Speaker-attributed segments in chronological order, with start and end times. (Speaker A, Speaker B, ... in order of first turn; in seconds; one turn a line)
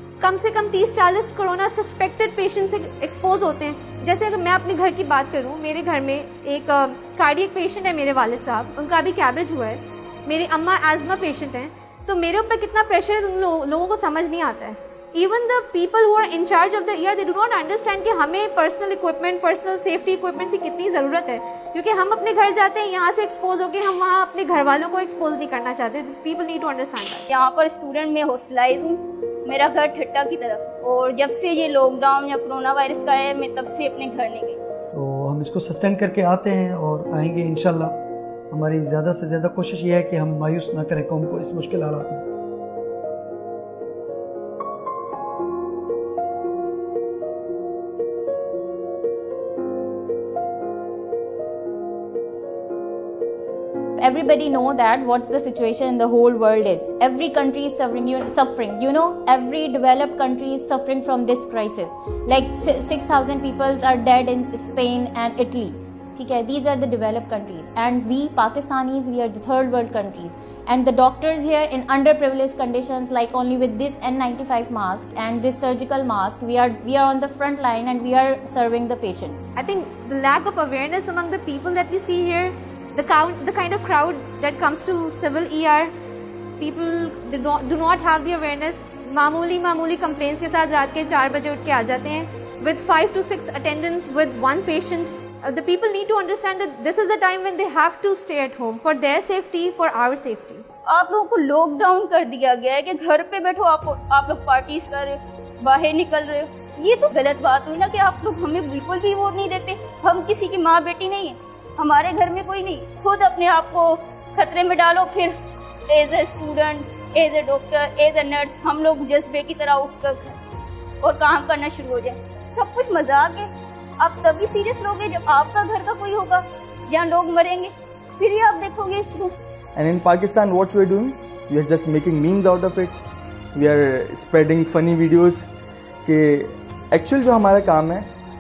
Speaker A: 0.2-27.3
Speaker B: 27.3-34.6
Speaker C: 34.9-38.0
Speaker C: 38.5-42.2
Speaker D: 54.0-79.5
Speaker A: 79.6-85.9
Speaker A: 86.6-100.7
Speaker B: 100.9-115.3
Speaker B: 115.9-120.4
Speaker B: 121.0-123.5
Speaker B: 124.0-129.3
Speaker E: 129.8-133.0
Speaker E: 133.6-135.5
Speaker E: 136.1-138.1